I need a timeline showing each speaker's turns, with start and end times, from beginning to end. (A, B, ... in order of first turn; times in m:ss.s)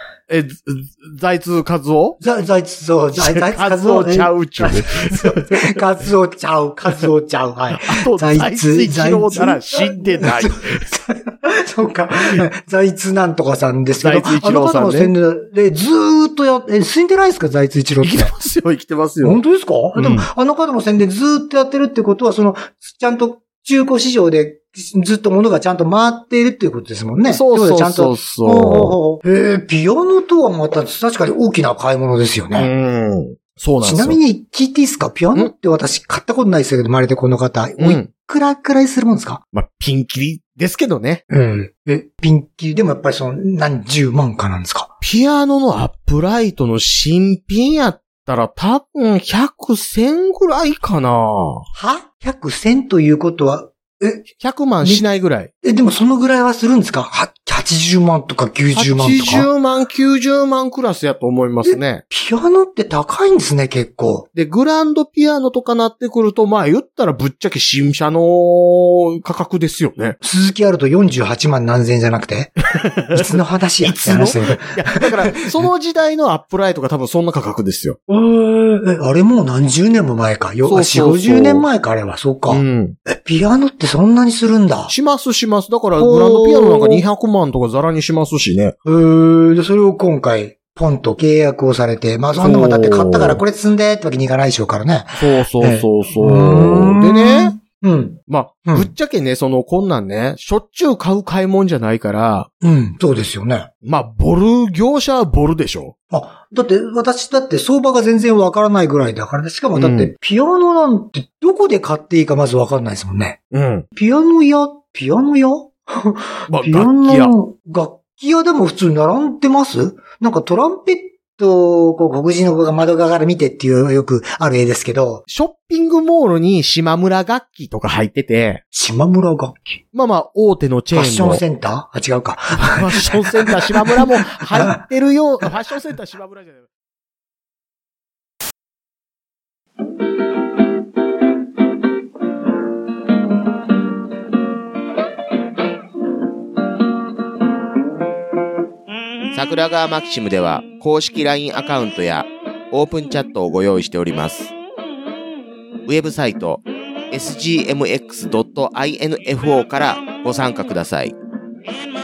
0:00.3-0:02.2 A
0:02.2-0:18.3 B
0:03.2-0:05.8 A
0:07.7-0:10.8 A
0:14.0-0:15.1 A
0:18.0-0:19.4 A
0:19.2-0:32.7 B
0:20.0-0:20.3 A
0:27.3-0:29.0 A
0:32.5-0:34.2 A
0:33.8-0:39.4 B
0:37.8-0:38.1 A
0:39.5-0:41.2 A
0:41.3-0:44.9 B
0:45.0-0:51.6 A
0:51.7-0:54.2 B
0:54.3-0:55.5 A
0:54.8-0:55.1 B
0:55.6-0:59.5 B
0:58.7-1:02.0 A
1:01.6-1:04.3 B
1:04.3-1:10.2 A
1:10.2-1:12.6 B
1:12.7-1:18.0 A
1:13.1-1:15.4 B
1:18.1-1:24.9 B
1:20.6-1:21.7 A
1:22.5-1:23.0 A
1:24.9-1:28.8 A
1:26.0-1:27.0 B
1:28.8-1:38.9 B
1:32.3-1:33.4 A
1:35.1-1:37.5 A
1:38.3-1:42.5 A
1:42.6-1:43.7 B
1:43.8-1:45.9 A
1:46.1-1:53.4 B
1:49.7-1:50.1 A
1:53.5-1:53.8 A
1:53.9-2:05.2 B
1:56.5-1:57.3 A
2:05.3-2:08.6 A
2:08.7-2:09.8 B
2:09.9-2:11.4 A
2:10.9-2:14.7 B
2:12.5-2:16.7 A
2:29.3-2:34.5 A
2:35.8-2:41.1 A